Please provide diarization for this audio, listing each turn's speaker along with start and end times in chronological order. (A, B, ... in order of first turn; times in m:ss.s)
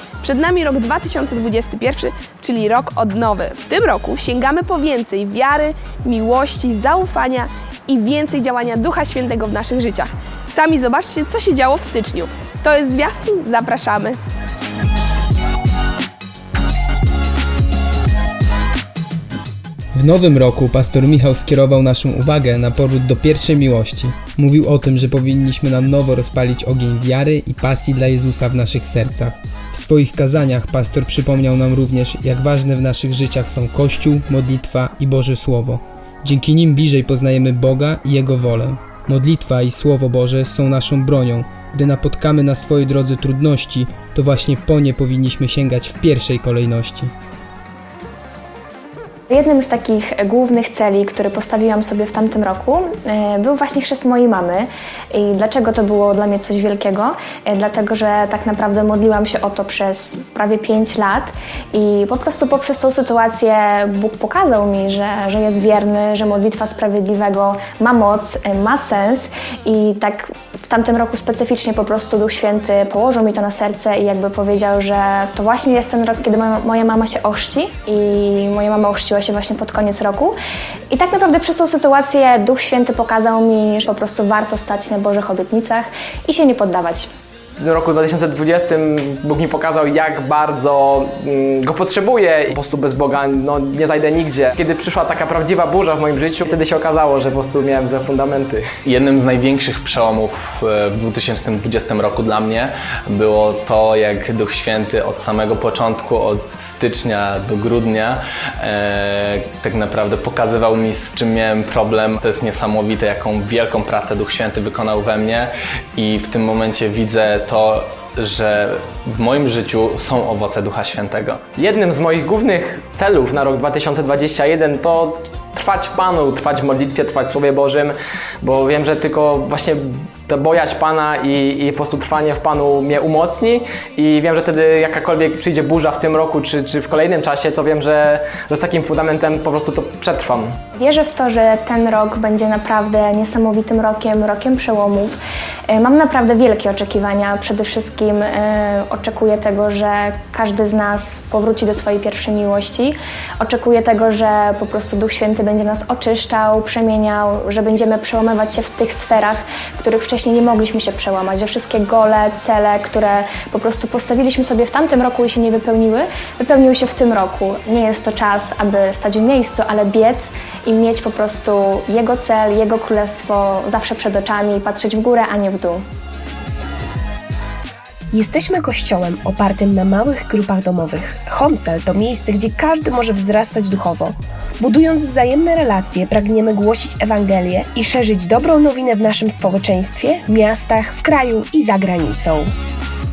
0:00.2-0:14.2 A
0:20.0-0:47.1 B
0:49.3-1:20.3 C
1:20.9-1:27.1 C
1:27.6-1:38.6 D
1:38.8-2:01.5 E
2:01.6-2:20.6 D
2:20.8-2:25.2 C
2:25.7-2:55.8 C
2:58.1-3:12.5 F